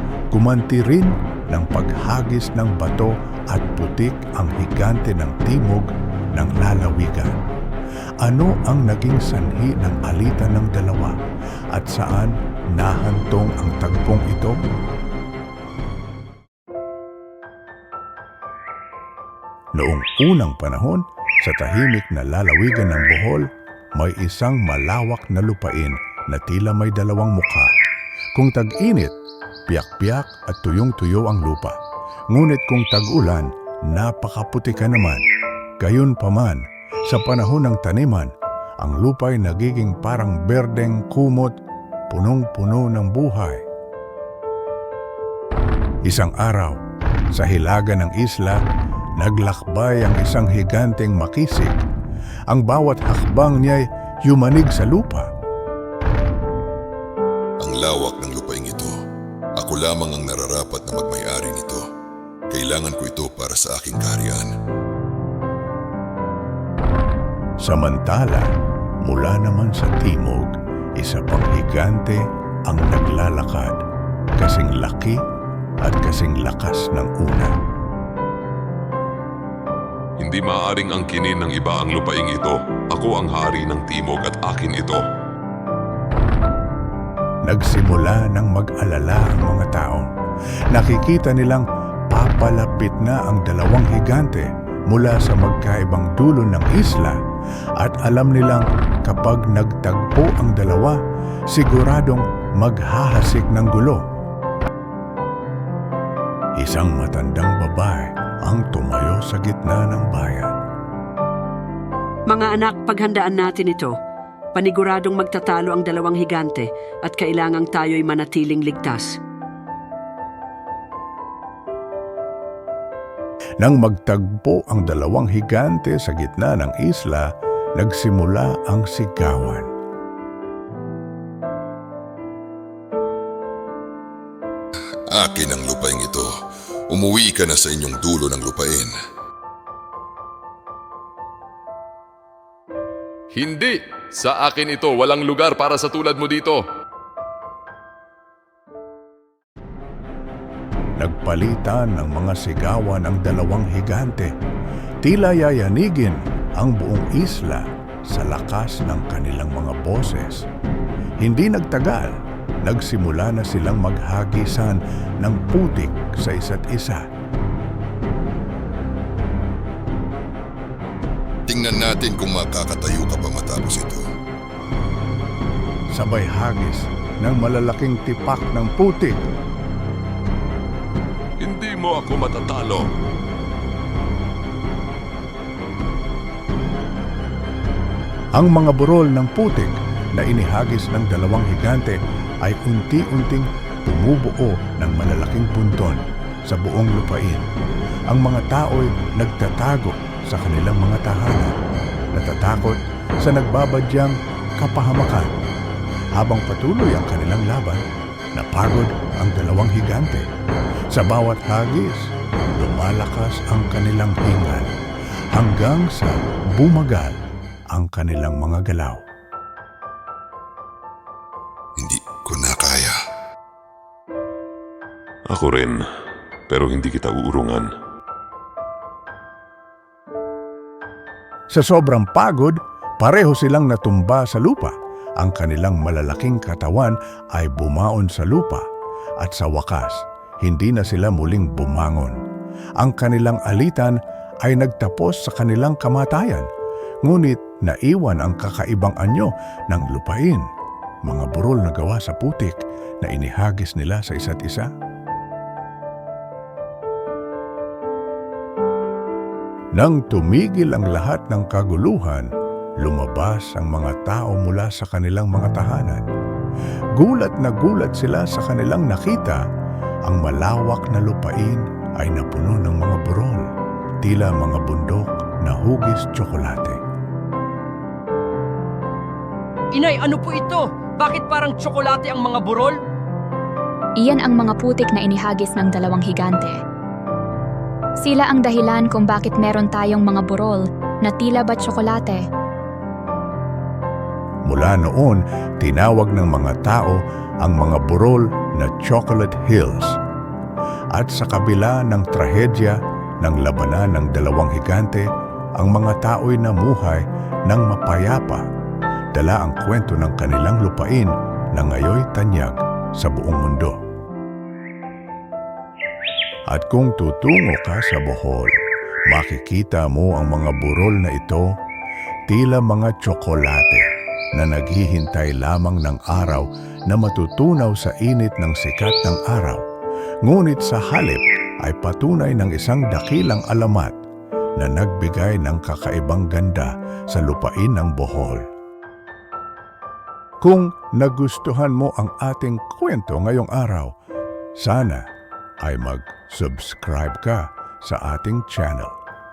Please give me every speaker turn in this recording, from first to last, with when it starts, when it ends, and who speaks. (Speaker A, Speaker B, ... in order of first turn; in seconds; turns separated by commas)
Speaker A: 0.3-7.4, Speaker A: 8.2-11.2, Speaker A: 11.7-14.6, Speaker A: 19.8-27.7, Speaker A: 28.4-29.1, Speaker A: 29.7-31.8, Speaker A: 32.3-35.2, Speaker A: 35.8-41.5, Speaker A: 42.1-43.6, Speaker A: 46.0-46.8, Speaker A: 47.3-48.6, Speaker A: 49.2-51.8, Speaker A: 52.5-55.3, Speaker B: 57.6-58.9, Speaker B: 59.6-61.8, Speaker B: 62.5-64.5, Speaker A: 67.6-68.5, Speaker A: 69.0-73.8, Speaker A: 74.4-75.2, Speaker A: 75.8-77.5, Speaker C: 80.2-85.0, Speaker A: 87.5-90.1, Speaker A: 90.7-97.2, Speaker A: 97.8-101.0, Speaker A: 101.5-104.1, Speaker A: 106.6-110.5, Speaker D: 112.3-114.0, Speaker D: 114.5-119.2, Speaker A: 123.6-129.7, Speaker B: 135.1-136.3, Speaker B: 136.9-138.9, Speaker C: 143.3-146.6, Speaker A: 151.0-154.3, Speaker A: 155.0-160.5, Speaker A: 161.2-167.1, Speaker B: 171.5-174.0, Speaker A: 175.9-179.2, Speaker C: 181.4-182.9, Speaker A: 188.4-197.5, Speaker A: 198.1-201.6, Speaker A: 202.1-205.3, Speaker A: 206.2-207.8, Speaker A: 208.4-210.3, Speaker A: 210.9-214.7, Speaker A: 215.3-217.2, Speaker A: 217.7-219.0, Speaker B: 221.8-222.9, Speaker C: 225.3-225.8, Speaker C: 226.5-227.7, Speaker A: 231.5-238.7, Speaker A: 239.2-242.2, Speaker A: 242.8-246.5, Speaker A: 247.0-250.5, Speaker A: 251.1-254.7, Speaker A: 259.8-266.1, Speaker A: 267.0-269.4, Speaker A: 270.1-273.5, Speaker A: 274.0-276.8, Speaker E: 279.7-282.8, Speaker F: 284.0-286.6, Speaker F: 288.0-292.2, Speaker A: 294.5-300.0, Speaker A: 300.9-308.4, Speaker A: 309.1-313.8, Speaker A: 316.5-318.6, Speaker A: 319.1-321.5, Speaker A: 322.3-329.6, Speaker A: 330.2-334.0, Speaker A: 334.6-338.4, Speaker A: 340.4-343.9, Speaker A: 344.6-345.1, Speaker A: 345.6-349.0